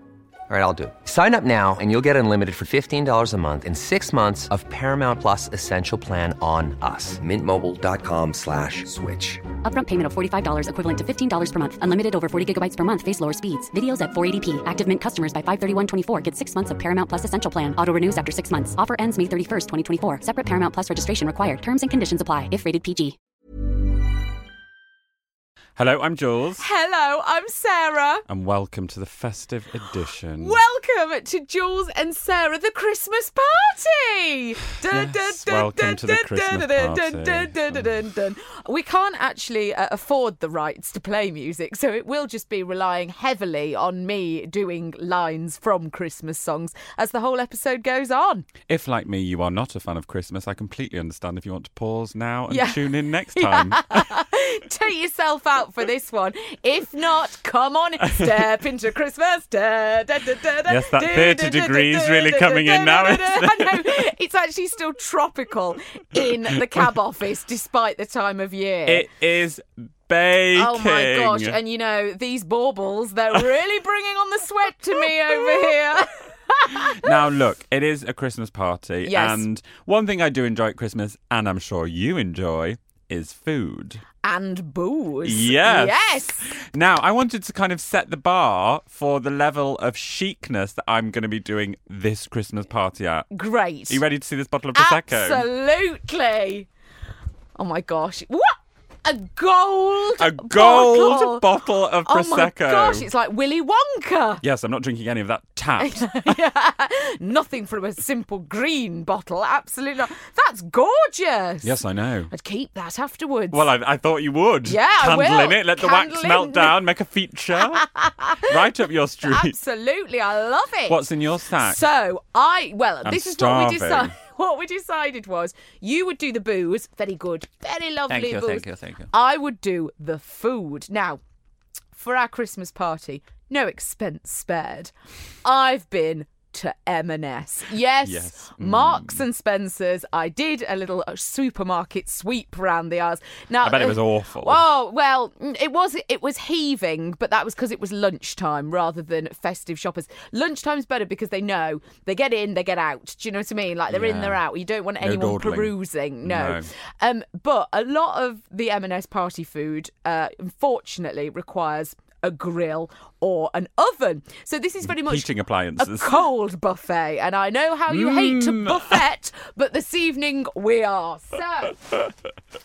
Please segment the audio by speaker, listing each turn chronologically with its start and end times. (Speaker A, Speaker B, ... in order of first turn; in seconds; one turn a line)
Speaker A: 0.5-9.4
Speaker B: 9.6-23.1
Speaker C: 25.8-26.6
Speaker D: 26.6-28.2
Speaker C: 28.3-30.6
Speaker D: 30.4-48.5
Speaker C: 34.9-37.8
Speaker C: 48.7-54.1
Speaker D: 52.5-69.0
Speaker C: 58.1-58.5
Speaker C: 60.7-63.9
Speaker C: 66.5-66.8
Speaker C: 68.9-71.6
Speaker D: 70.5-77.1
Speaker C: 75.3-75.7
Speaker C: 76.8-84.0
Speaker D: 79.0-79.4
Speaker D: 84.2-86.5
Speaker C: 85.2-93.3
Speaker D: 93.3-94.0
Speaker C: 93.9-95.5
Speaker D: 94.7-96.7
Speaker D: 97.6-101.5
Speaker C: 100.2-103.1
Speaker D: 102.0-104.4
Speaker C: 104.4-106.2
Speaker D: 105.8-111.8
Speaker C: 111.6-112.3
Speaker D: 112.3-113.7
Speaker C: 113.5-117.8
Speaker D: 114.7-116.8
Speaker D: 117.6-118.5
Speaker C: 118.4-119.5
Speaker D: 119.2-121.0
Speaker C: 120.9-121.8
Speaker D: 121.6-131.2
Speaker C: 123.0-124.1
Speaker C: 128.1-129.1
Speaker D: 131.9-134.9
Speaker D: 135.4-171.8
Speaker C: 138.0-139.2
Speaker C: 143.6-144.6
Speaker C: 153.9-154.4
Speaker C: 155.0-156.7
Speaker C: 164.8-166.2
Speaker C: 167.9-169.0